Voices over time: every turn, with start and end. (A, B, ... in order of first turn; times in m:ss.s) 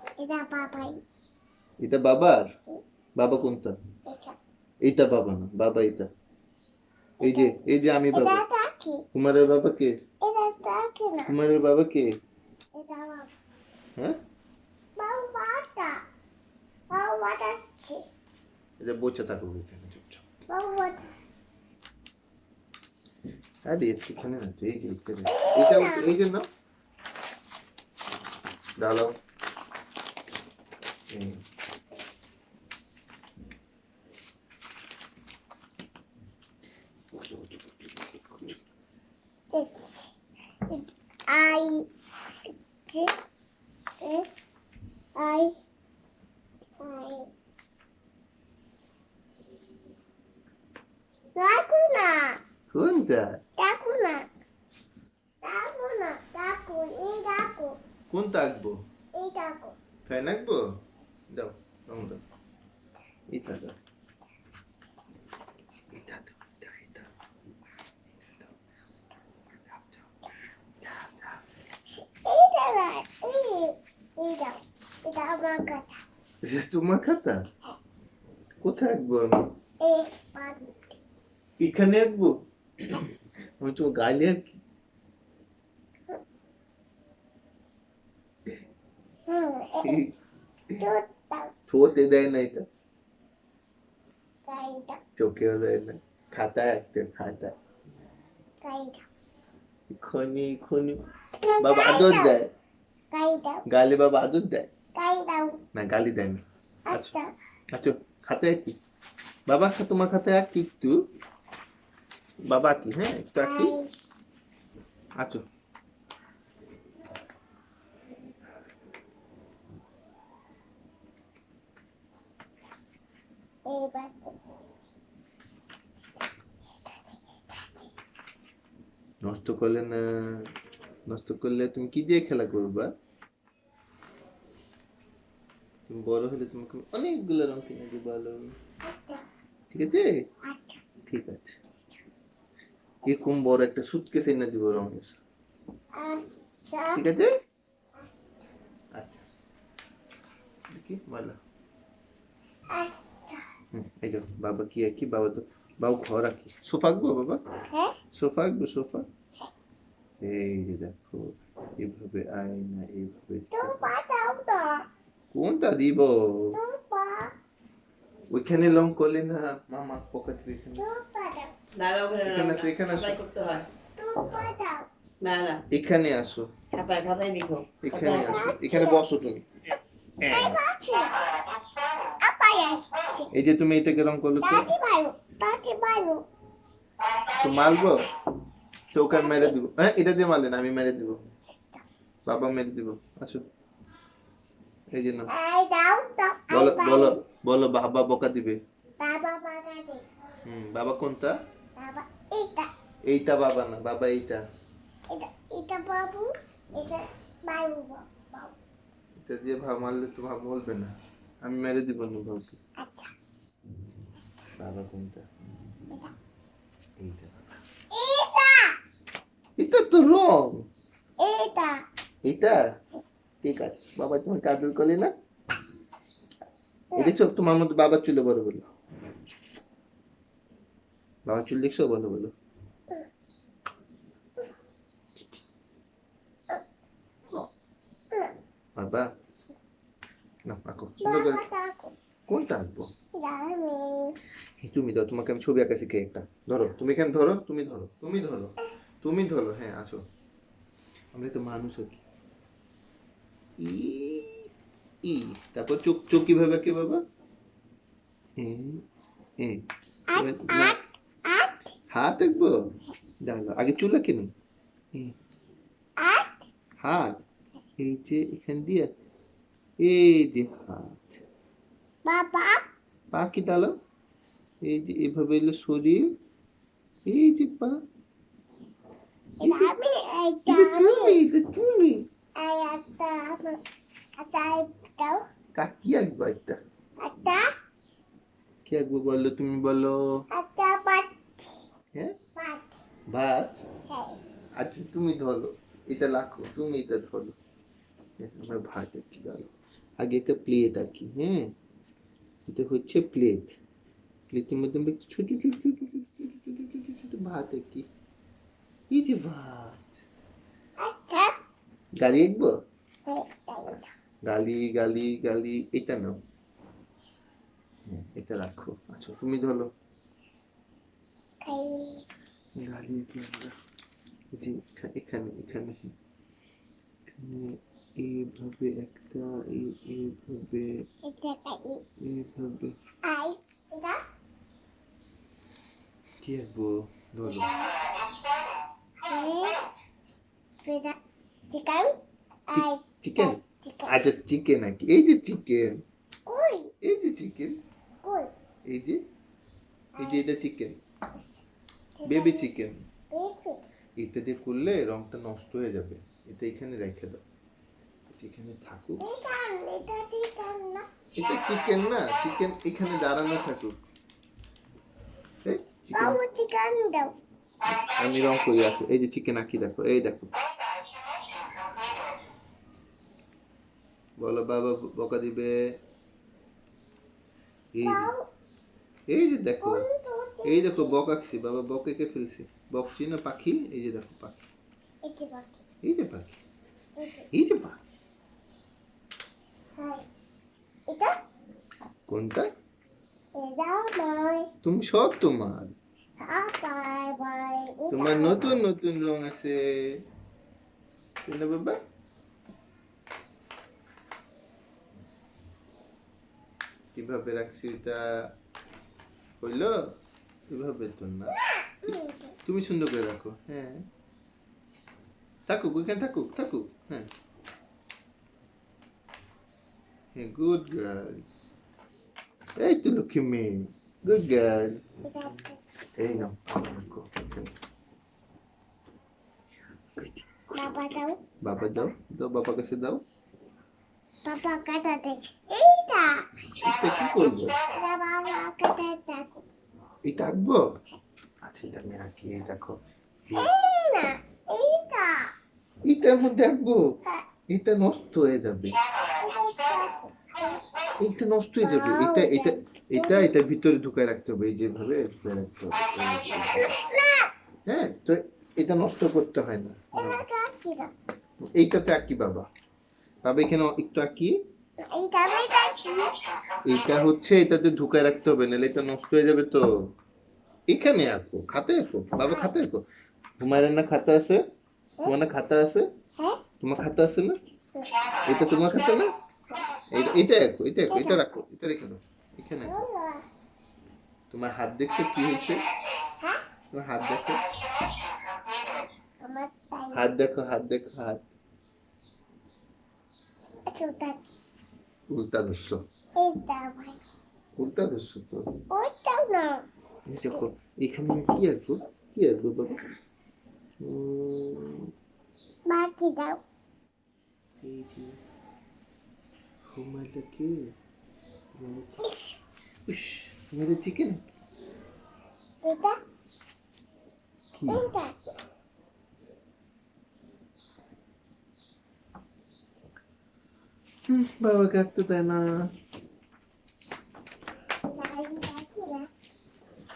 0:00.2-0:01.0 A
0:01.8-0:02.5 B
0:03.2-0:03.8 B
0:04.1-0:04.4 A
0:04.8-0:06.1 B
0:07.2-0:07.5 A
0:07.2-0:08.4 B
0:08.1-0:09.0 A
0:09.1-0:09.9 B
0:10.2-0:11.3 A
0:11.3-0:12.1 B
0:12.7-0:13.3 A
0:15.0-0:16.0 A
0:16.9-0:18.0 A
0:18.8-0:20.3 B
0:20.5-0:21.0 A
0:23.6-0:26.5 B
0:25.3-0:26.1 A
0:28.8-0:29.1 B
0:31.1-0:31.4 B
0:37.1-0:38.6 B
0:39.5-0:40.1 A
0:40.7-0:41.8 A
0:42.9-0:43.1 A
0:44.0-0:44.3 A
0:45.2-0:45.5 A
0:46.8-0:47.3 A
0:51.4-0:52.4 A
0:52.7-0:53.4 B
0:53.6-0:54.3 A
0:55.4-0:57.7 A
0:58.1-0:58.8 B
0:59.2-0:59.8 A
1:00.0-1:00.6 B
1:01.3-1:02.2 B
1:03.3-1:03.8 B
1:05.9-1:07.1 B
1:09.7-1:10.0 B
1:10.8-1:11.4 B
1:12.2-1:16.0 A
1:16.4-1:17.4 B
1:18.6-1:19.5 B
1:19.8-1:20.8 A
1:21.6-1:23.1 B
1:23.6-1:24.6 B
1:29.3-1:30.0 A
1:30.8-1:31.5 A
1:31.7-1:32.6 B
1:34.4-1:35.0 A
1:35.2-1:37.5 B
1:38.6-1:39.0 A
1:39.9-1:41.0 B
1:41.4-1:42.3 A
1:41.6-1:42.5 B
1:43.1-1:43.6 A
1:43.7-1:44.7 B
1:45.0-1:45.6 A
1:45.8-1:47.1 B
1:46.9-1:47.3 A
1:47.7-1:48.8 B
1:49.5-1:51.0 B
1:52.5-1:53.8 B
1:53.4-1:53.9 A
2:03.7-2:04.4 A
2:09.2-2:10.4 B
2:11.1-2:12.9 B
2:15.9-2:18.5 B
2:18.8-2:19.2 A
2:19.7-2:20.1 B
2:20.5-2:20.8 A
2:21.1-2:21.6 B
2:23.0-2:25.2 B
2:26.0-2:27.0 A
2:26.9-2:27.3 B
2:28.0-2:28.5 A
2:29.0-2:29.2 B
2:30.7-2:31.4 B
2:32.7-2:33.4 A
2:33.7-2:37.4 B
2:37.7-2:37.9 A
2:38.1-2:39.1 B
2:40.2-2:43.9 B
2:43.5-2:44.8 A
2:45.3-2:46.6 B
2:46.5-2:47.3 A
2:48.3-2:50.9 B
2:50.8-2:51.5 A
2:51.8-2:53.7 C
2:52.2-2:53.2 B
2:54.0-2:54.9 A
2:55.2-2:55.6 C
2:55.7-2:56.5 B
2:56.7-2:58.4 C
2:57.8-2:59.5 B
2:58.1-2:59.0 A
3:00.2-3:00.6 B
3:00.3-3:01.2 A
3:02.2-3:03.3 A
3:03.3-3:04.7 B
3:04.4-3:06.2 A
3:07.4-3:08.0 B
3:08.9-3:11.2 B
3:09.1-3:09.6 A
3:12.2-3:13.4 B
3:14.9-3:15.3 B
3:15.3-3:17.2 A
3:16.5-3:18.6 B
3:19.0-3:20.1 A
3:20.4-3:21.4 B
3:21.8-3:22.7 A
3:23.1-3:24.4 B
3:25.1-3:28.5 A
3:29.2-3:32.6 B
3:32.8-3:33.1 A
3:34.6-3:35.3 B
3:37.0-3:37.5 B
3:37.9-3:38.7 A
3:39.6-3:40.7 B
3:41.2-3:41.8 A
3:42.2-3:42.6 B
3:43.4-3:45.1 B
3:46.9-3:48.7 B
3:51.2-3:52.3 B
3:58.8-3:59.1 B
4:00.5-4:01.4 B
4:01.0-4:01.9 A
4:02.3-4:02.9 B
4:03.2-4:04.2 A
4:04.6-4:10.0 B
4:11.1-4:12.0 B
4:13.6-4:14.5 B
4:15.0-4:17.0 B
4:18.4-4:18.8 B
4:19.4-4:20.8 B
4:20.1-4:21.6 A
4:21.9-4:22.5 B
4:23.2-4:24.3 B
4:26.0-4:26.4 A
4:26.8-4:27.2 B
4:27.8-4:28.9 B
4:29.8-4:31.2 B
4:32.1-4:32.6 A
4:33.1-4:33.7 B
4:34.6-4:36.1 B
4:37.1-4:37.8 B
4:39.4-4:41.2 A
4:39.4-4:39.7 B
4:40.5-4:42.0 B
4:42.4-4:43.6 A
4:44.2-4:45.2 A
4:45.6-4:46.6 B
4:47.0-4:47.4 A
4:48.6-4:50.0 B
4:50.3-4:51.2 A
4:52.4-4:52.8 A
4:53.1-4:53.5 B
4:53.9-4:54.2 A
4:54.6-4:57.4 B
4:58.2-5:01.5 B
5:02.5-5:03.5 B
5:04.3-5:07.8 B
5:08.9-5:09.8 B
5:10.8-5:11.4 A
5:12.0-5:12.5 B
5:13.0-5:13.9 A
5:14.2-5:16.2 B
5:17.9-5:19.7 B
5:21.4-5:22.0 A
5:22.6-5:23.5 B
5:24.3-5:25.9 B
5:27.1-5:30.7 B
5:31.0-5:31.8 A
5:32.0-5:32.7 B
5:33.0-5:34.0 A
5:36.2-5:37.5 B
5:37.2-5:37.8 A
5:39.0-5:39.6 A
5:40.6-5:41.0 A
5:41.5-5:41.9 A
5:42.5-5:44.0 A
5:42.5-5:43.4 B
5:43.9-5:45.8 B
5:46.2-5:46.7 A
5:46.8-5:47.6 B
5:48.0-5:48.3 A
5:48.7-5:49.0 B
5:50.0-5:50.2 A
5:50.0-5:50.8 B
5:52.0-5:52.5 A
5:52.0-5:52.8 B
5:53.1-5:53.6 A
5:54.0-5:57.2 B
5:58.1-5:59.0 B
5:59.0-6:00.9 A
6:01.1-6:03.8 B
6:05.4-6:06.2 B
6:05.9-6:07.1 A
6:07.7-6:10.3 B
6:14.2-6:15.6 B
6:17.7-6:18.1 B
6:17.8-6:18.2 A
6:19.1-6:19.8 B
6:19.6-6:21.0 A
6:20.4-6:24.4 B
6:25.0-6:25.6 A
6:25.8-6:26.4 B
6:27.0-6:27.3 A
6:27.3-6:27.8 B
6:29.8-6:30.0 A
6:30.9-6:31.1 A
6:32.1-6:32.5 B
6:33.4-6:34.5 A
6:34.6-6:35.7 B
6:36.2-6:38.6 A
6:37.9-6:40.0 B
6:41.2-6:41.8 B
6:46.9-6:48.0 B
6:49.4-6:49.9 B
6:50.5-6:53.9 B
6:51.6-6:52.3 A
6:55.5-6:57.1 B
7:00.1-7:01.2 B
7:02.6-7:04.8 B
7:05.0-7:06.2 A
7:06.0-7:07.5 B
7:10.0-7:10.6 B
7:10.5-7:11.2 A
7:11.4-7:13.0 B
7:14.2-7:16.2 A
7:16.6-7:17.6 B
7:17.7-7:19.4 A
7:20.0-7:20.6 B
7:21.4-7:23.5 B
7:23.3-7:25.3 A
7:25.8-7:26.9 B
7:27.5-7:28.8 B
7:29.2-7:30.6 A
7:31.0-7:36.7 B
7:31.6-7:33.4 A
7:36.4-7:37.3 A
7:37.7-7:40.2 B
7:39.9-7:40.9 A
7:41.4-7:42.5 B
7:43.2-7:44.4 B
7:44.8-7:46.1 A
7:46.6-7:49.6 B
7:50.7-7:52.8 B
7:52.2-7:52.5 A
7:53.4-7:54.4 B
7:55.0-7:55.9 B
7:56.6-7:57.4 B
7:57.8-7:58.2 A
7:58.2-7:59.1 B
7:59.9-8:02.8 B
8:00.9-8:01.2 A
8:02.6-8:03.2 A
8:04.3-8:05.6 B
8:06.7-8:07.4 B
8:09.2-8:10.0 A
8:09.9-8:11.2 B
8:13.7-8:14.2 A
8:15.1-8:15.8 B
8:16.2-8:17.0 A
8:17.6-8:18.4 B
8:18.7-8:19.6 A
8:20.1-8:22.8 B
8:23.8-8:24.8 B
8:25.7-8:26.4 A
8:27.6-8:28.2 B
8:29.6-8:30.6 B
8:31.5-8:32.1 B
8:32.9-8:34.2 B
8:35.6-8:36.0 A
8:37.5-8:37.9 B
8:37.7-8:38.4 A
8:44.1-8:45.6 B
8:47.9-8:49.1 A